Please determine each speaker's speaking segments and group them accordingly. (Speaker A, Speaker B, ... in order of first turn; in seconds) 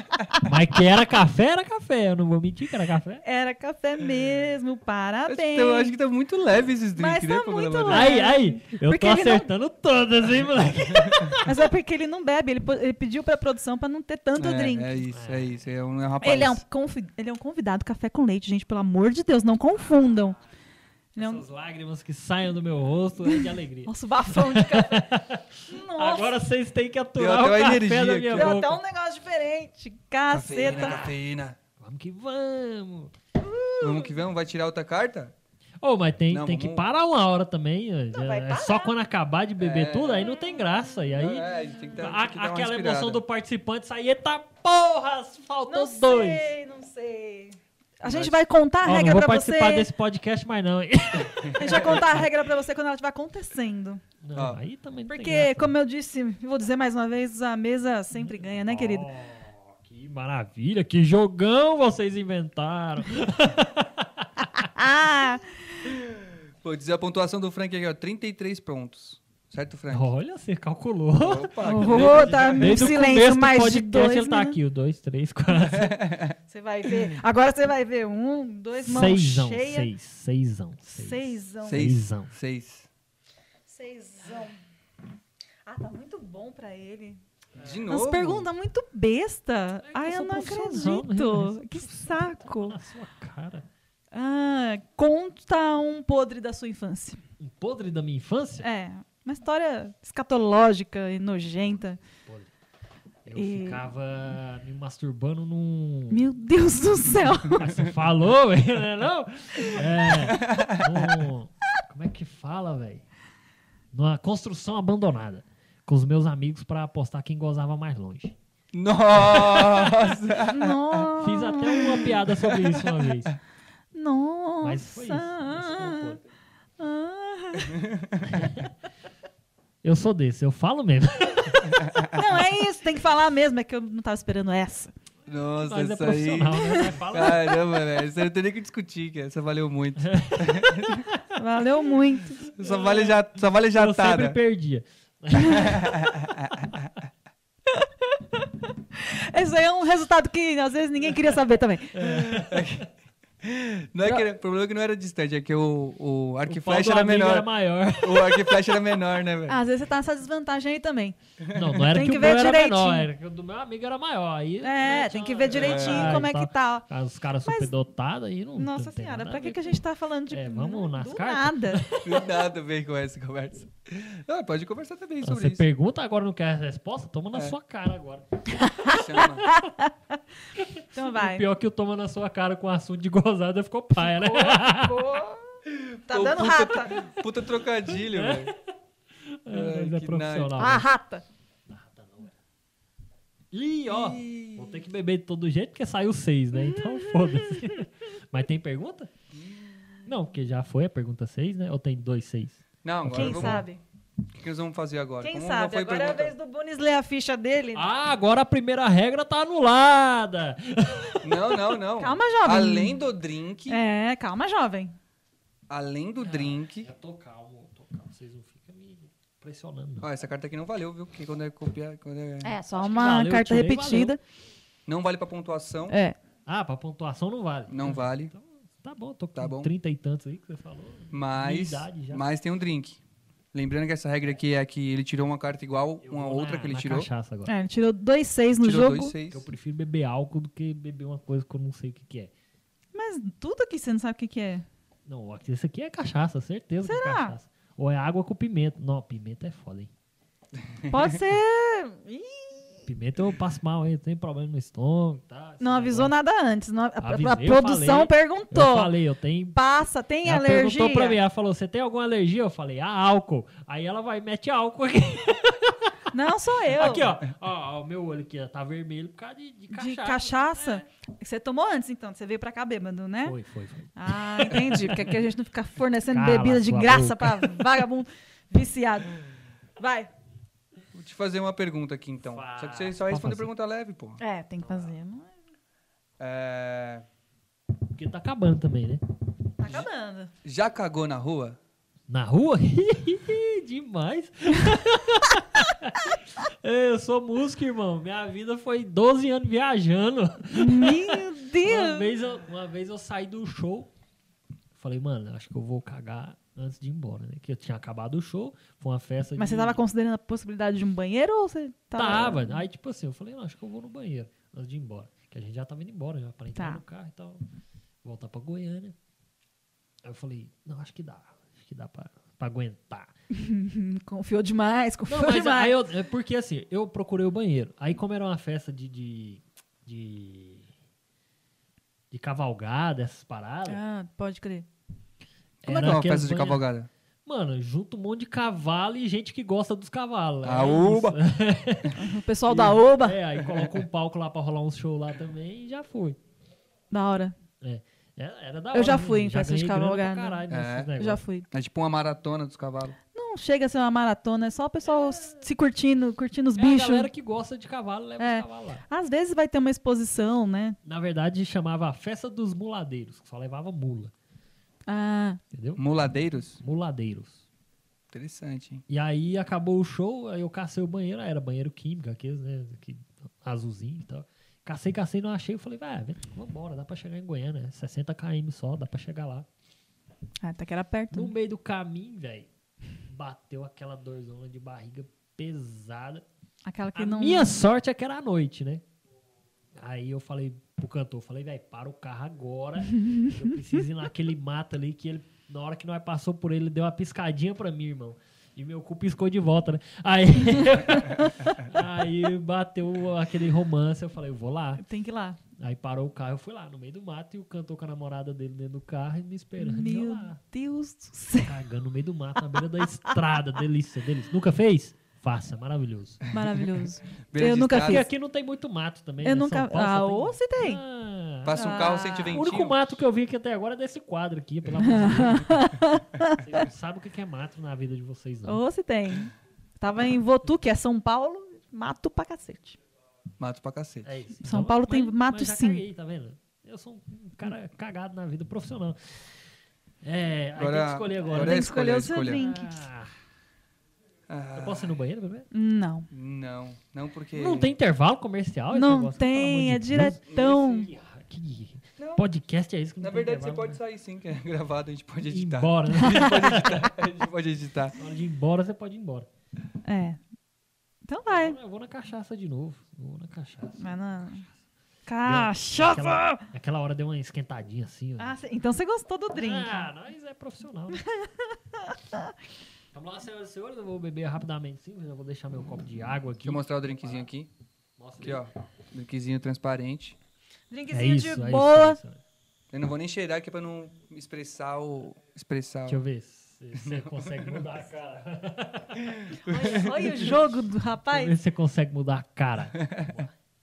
Speaker A: 0.4-3.2, 7.9-11.7, 15.1-15.6, 21.2-28.8, 30.7-31.1, 31.8-33.1, 35.8-46.5, 48.8-52.3, 54.2-55.7, 58.1-64.7, 69.9-76.0, 78.8-82.3, 89.9-93.7, 97.4-98.7, 102.2-102.5, 103.2-106.2, 107.4-113.0, 113.9-118.4, 119.2-119.8, 121.2-123.3, 124.6-126.2, 128.2-128.7, 129.8-131.9, 135.6-137.6, 140.1-141.2, 143.7-146.0, 151.9-152.9, 156.5-158.6, 161.5-172.3, 175.2-178.2, 178.8-179.6, 180.6-185.0, 187.9-188.6, 189.3-190.9, 191.7-192.3, 193.5-199.1, 200.1-203.7, 207.7-211.2, 216.2-220.1, 222.8-224.2, 226.5-232.2, 236.0-237.5, 239.3-242.3, 245.1-249.9, 252.9-256.1, 257.0-259.6, 260.2-266.1, 266.7-270.9, 273.2-275.2, 276.1-277.8, 282.2-283.5, 287.9-289.0, 292.1-303.9, 304.8-309.8, 311.9-317.4, 318.0-318.9, 320.0-323.1, 325.1-330.7, 332.1-333.8, 335.6-336.6, 337.2-346.2, 347.6-351.2, 355.1-355.4, 356.6-358.8, 360.8-364.1, 365.5-365.8, 366.6-367.4, 368.9-379.5, 381.1-382.5, 383.1-386.2, 387.0-388.8, 389.8-404.8, 405.6-410.4, 411.4-416.3, 417.8-425.8, 426.3-428.6, 434.1-439.3, 440.0-441.7, 442.2-443.1, 444.6-445.5, 447.3-453.8, 455.3-456.9, 458.0-459.3, 461.3-463.9, 465.2-468.4, 469.3-471.0, 472.9-477.3, 478.0-478.5, 480.9-482.2, 485.9-490.4, 491.1-493.3
Speaker B: 3.2-5.9, 7.0-9.5, 11.4-15.0, 16.2-20.4, 21.1-21.4, 23.2-25.1, 25.7-26.4, 28.3-31.1, 33.4-34.1, 38.1-38.9, 45.7-49.9, 51.5-54.0, 55.1-59.1, 64.8-65.8, 71.6-74.6, 76.5-79.9, 80.9-81.8, 83.7-84.6, 85.7-87.2, 87.9-92.8, 94.1-97.2, 98.6-102.0, 103.3-103.8, 106.1-107.7, 120.5-122.0, 123.9-126.2, 126.8-127.8, 132.0-134.9, 136.6-136.9, 141.3-143.0, 148.9-152.0, 159.5-161.2, 161.8-163.1, 164.6-166.9, 167.4-167.7, 168.6-171.8, 178.6-179.0, 179.5-179.9, 180.9-181.4, 184.0-185.4, 186.1-186.9, 190.6-191.2, 194.1-194.6, 196.7-197.8, 203.1-203.8, 205.2-207.8, 212.0-213.0, 213.7-214.9, 222.4-224.2, 225.9-226.2, 237.5-239.1, 242.9-244.7, 246.8-247.3, 250.9-252.9, 255.6-258.9, 259.5-261.2, 266.1-267.1, 269.7-273.4, 274.0-279.2, 279.8-280.1, 284.2-285.3, 289.6-290.3, 300.6-302.1, 309.4-312.6, 316.6-316.8, 323.3-325.8, 333.7-334.7, 342.0-343.2, 346.9-347.4, 348.7-350.4, 351.0-351.5, 353.1-357.1, 358.2-360.8, 364.9-365.4, 380.4-381.3, 386.7-387.6, 404.8-405.4, 409.6-411.6, 416.3-418.1, 419.2-420.8, 421.5-422.4, 424.8-426.6, 428.5-432.8, 434.4-435.8, 441.3-442.7, 445.5-446.1, 448.7-450.9, 456.0-456.4, 459.8-460.2, 461.1-461.6, 463.8-464.4, 465.1-466.4, 468.2-469.9, 470.9-472.3, 480.7-482.0, 489.5-491.4
Speaker C: 5.3-8.2, 10.9-11.3, 14.4-16.6, 27.2-28.6, 30.3-31.6, 33.8-35.3, 36.3-36.9, 39.6-40.4, 41.1-43.2, 48.0-48.4, 51.4-51.8, 54.4-54.6, 65.9-70.1, 71.2-73.0, 75.5-76.4, 81.6-82.9, 87.6-88.5, 110.1-111.2, 118.7-121.1, 122.4-123.0, 127.6-128.3, 131.8-132.2, 135.3-141.1, 142.4-144.4, 145.4-146.9, 152.0-152.9, 153.4-159.6, 161.4-161.8, 165.5-166.2, 172.0-175.7, 178.8-179.5, 185.7-188.5, 189.5-190.6, 202.8-203.7, 204.4-206.3, 211.2-213.8, 215.7-216.9, 220.0-222.6, 224.9-226.0, 227.7-228.3, 229.3-229.7, 231.1-233.0, 233.5-237.1, 238.6-239.5, 280.9-284.2, 286.2-287.1, 290.4-291.6, 335.6-336.9, 340.4-341.2, 343.4-343.8, 350.5-350.9, 351.5-353.0, 365.8-366.6, 368.1-368.8, 417.3-418.1, 421.4-422.9, 433.4-434.1, 440.6-442.5, 444.3-444.9, 446.1-447.7, 453.0-457.9, 476.4-477.5, 478.2-480.2, 482.7-486.0, 486.8-487.6, 489.1-490.1, 492.8-493.1